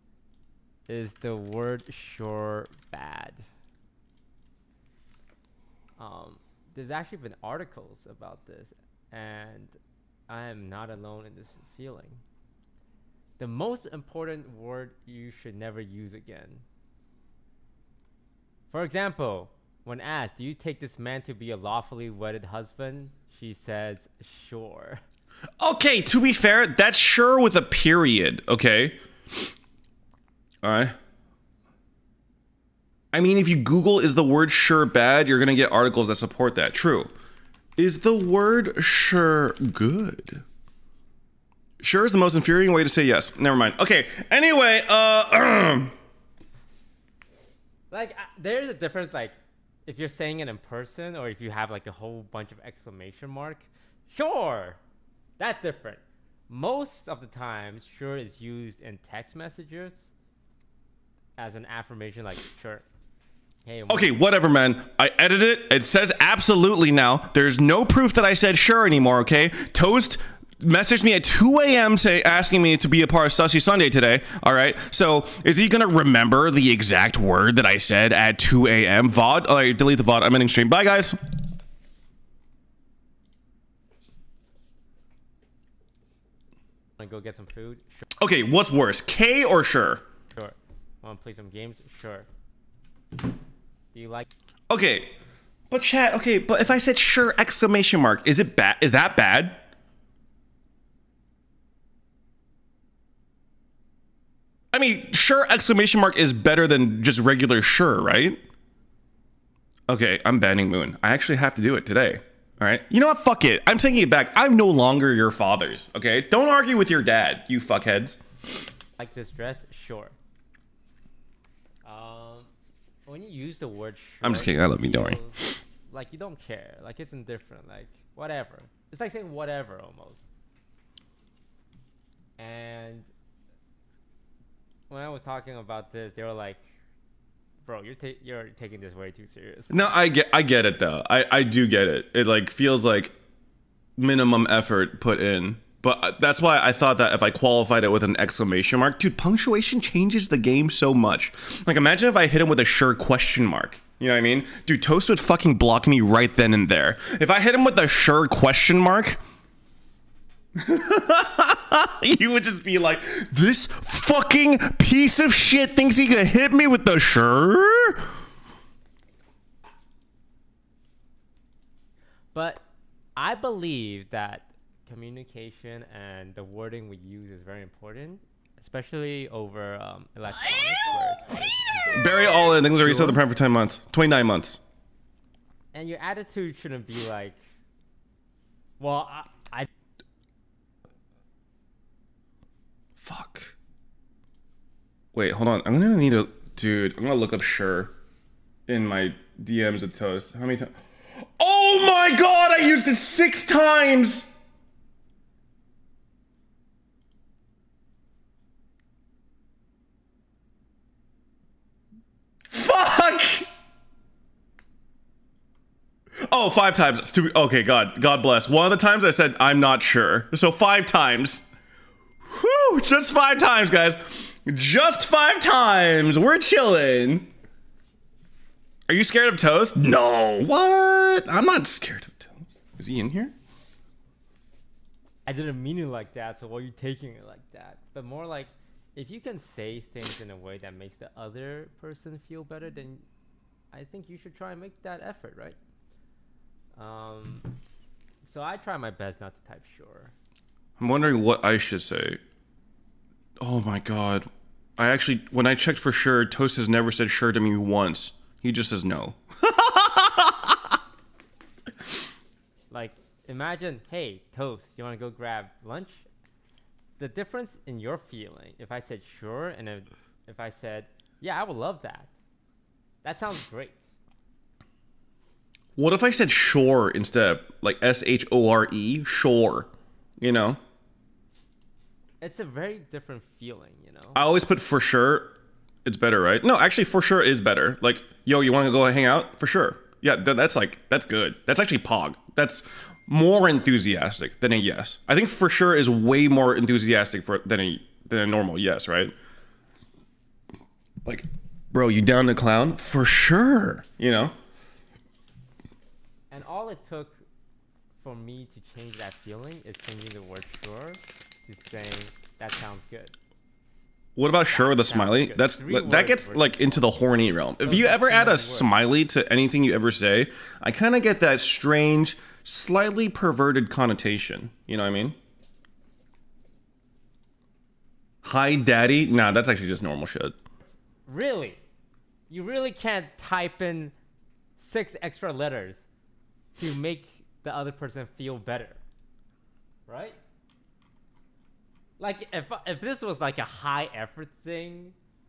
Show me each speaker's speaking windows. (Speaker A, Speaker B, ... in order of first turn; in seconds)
Speaker A: 0.9-3.4, 6.0-9.8, 10.3-12.2, 13.4-16.6, 18.7-25.0, 47.9-54.8, 55.4-60.1, 61.4-62.9, 63.6-64.2, 87.0-88.0, 90.3-92.3, 93.9-94.3, 119.0-120.2, 121.8-122.5, 123.1-130.2, 132.4-133.1, 134.9-136.6, 137.7-139.9, 172.3-172.6, 173.2-183.2, 185.7-187.4, 188.8-189.7, 235.3-243.1, 243.7-245.6, 246.8-247.5, 248.2-250.1, 262.7-266.1, 267.0-272.1, 273.0-273.9, 282.2-284.2, 306.3-307.2, 308.0-313.1, 314.5-318.7, 330.7-331.6, 332.3-333.9, 334.6-335.9, 336.6-338.8, 339.9-340.2, 342.0-344.9
Speaker B: 25.6-29.5, 30.6-30.9, 33.1-37.1, 37.8-40.4, 41.8-45.9, 63.9-81.2, 88.2-90.0, 94.7-95.1, 95.7-99.6, 104.7-108.4, 109.9-118.2, 124.2-125.2, 139.7-143.1, 144.0-159.2, 160.6-168.1, 181.9-184.6, 193.0-193.6, 195.1-197.9, 198.7-204.3, 212.5-213.5, 216.2-221.5, 222.3-227.3, 228.9-233.3, 250.8-252.2, 253.4-260.6, 275.8-280.6, 284.1-299.1, 301.1-304.3, 314.2-325.2, 328.2-330.4